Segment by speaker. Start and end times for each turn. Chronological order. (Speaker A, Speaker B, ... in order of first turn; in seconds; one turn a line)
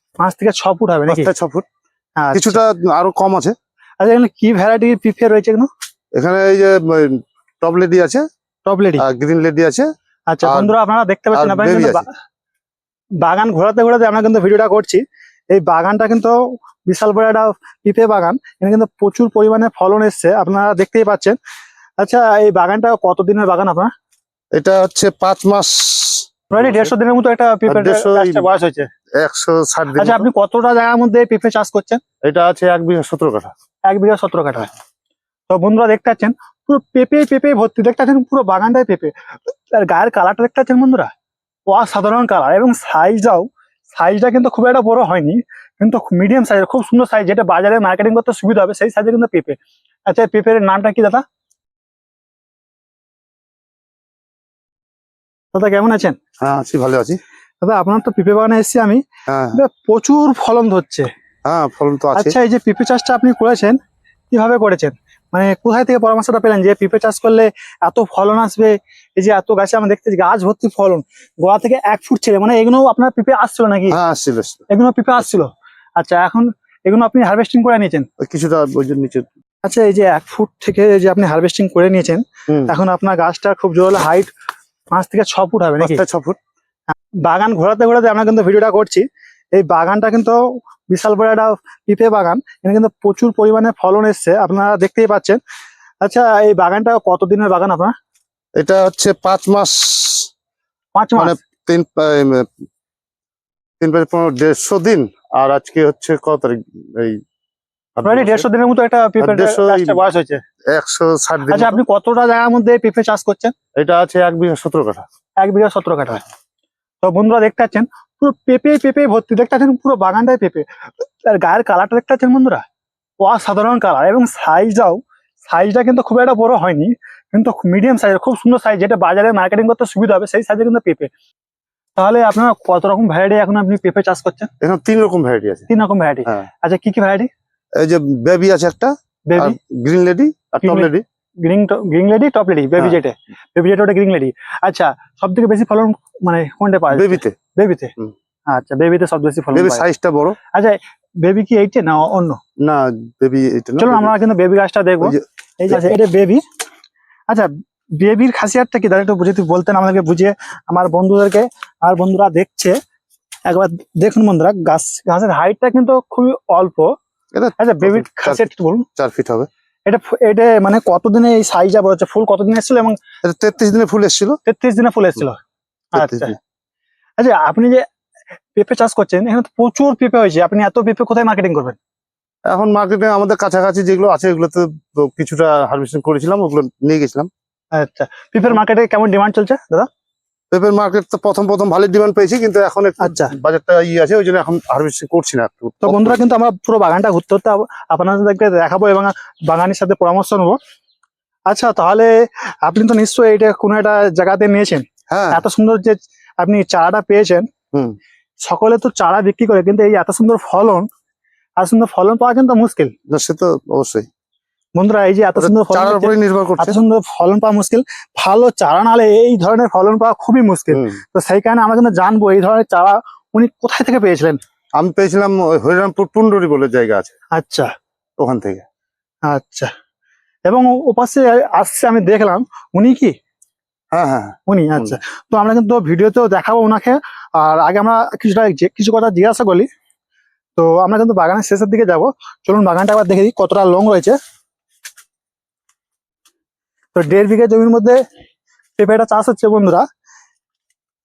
Speaker A: 0.2-1.3
Speaker B: 1.1-1.6
Speaker A: 2.2-2.6
Speaker B: 2.3-3.5
Speaker A: 4.0-5.7
Speaker B: 6.1-8.2
Speaker A: 8.7-9.0
Speaker B: 9.0-9.9
Speaker A: 10.3-12.1
Speaker B: 10.4-10.7
Speaker B: 11.3-12.1
Speaker A: 13.2-21.4
Speaker A: 22.0-23.9
Speaker B: 24.5-26.9
Speaker A: 26.5-28.9
Speaker B: 27.7-28.4
Speaker B: 29.1-30.3
Speaker A: 29.9-32.0
Speaker B: 32.2-33.5
Speaker A: 33.9-34.7
Speaker A: 35.5-41.1
Speaker A: 41.7-51.2
Speaker A: 55.5-56.2
Speaker B: 56.4-57.2
Speaker A: 57.6-59.0
Speaker B: 59.3-59.6
Speaker A: 59.5-61.1
Speaker B: 61.5-62.4
Speaker A: 62.1-63.8
Speaker A: 64.3-74.0
Speaker B: 73.9-74.7
Speaker A: 74.7-78.1
Speaker B: 78.2-79.3
Speaker A: 79.6-84.3
Speaker B: 82.5-82.7
Speaker A: 84.9-86.0
Speaker B: 85.8-86.4
Speaker A: 87.2-95.4
Speaker A: 96.0-97.9
Speaker B: 98.6-100.3
Speaker A: 100.9-101.4
Speaker B: 101.2-102.5
Speaker B: 103.8-107.2
Speaker B: 108.0-108.5
Speaker A: 108.0-110.4
Speaker B: 109.2-110.0
Speaker B: 110.7-111.8
Speaker A: 111.5-113.5
Speaker B: 113.8-115.0
Speaker A: 115.4-116.2
Speaker A: 117.0-120.7
Speaker A: 121.2-122.6
Speaker A: 123.2-131.1
Speaker A: 132.0-134.5
Speaker B: 134.6-135.7
Speaker A: 135.7-137.3
Speaker B: 137.8-141.0
Speaker A: 139.3-139.6
Speaker A: 140.6-140.9
Speaker A: 141.4-147.9
Speaker B: 146.9-147.3
Speaker A: 148.5-149.8
Speaker B: 149.5-150.4
Speaker A: 150.5-152.4
Speaker B: 152.6-154.1
Speaker A: 153.8-156.4
Speaker B: 155.0-155.9
Speaker A: 157.3-162.8
Speaker A: 163.5-166.9
Speaker B: 167.3-168.4
Speaker A: 167.6-168.8
Speaker B: 169.0-169.5
Speaker A: 169.8-173.0
Speaker B: 173.2-174.4
Speaker A: 174.4-175.4
Speaker A: 175.9-176.3
Speaker B: 175.9-176.3
Speaker A: 177.2-177.8
Speaker A: 178.6-181.8
Speaker B: 182.4-187.3
Speaker A: 187.7-189.9
Speaker B: 190.5-196.2
Speaker A: 193.0-193.3
Speaker A: 195.8-200.6
Speaker A: 201.5-207.5
Speaker B: 205.1-205.4
Speaker A: 208.4-210.9
Speaker A: 211.6-212.9
Speaker B: 213.1-214.1
Speaker A: 214.8-224.4
Speaker B: 215.4-216.8
Speaker B: 220.7-221.0
Speaker B: 224.8-227.1
Speaker A: 227.3-227.7
Speaker B: 228.2-228.6
Speaker A: 229.2-229.7
Speaker A: 230.4-233.1
Speaker B: 233.9-235.0
Speaker A: 234.5-239.7
Speaker A: 240.6-244.2
Speaker A: 246.9-248.0
Speaker A: 248.8-249.8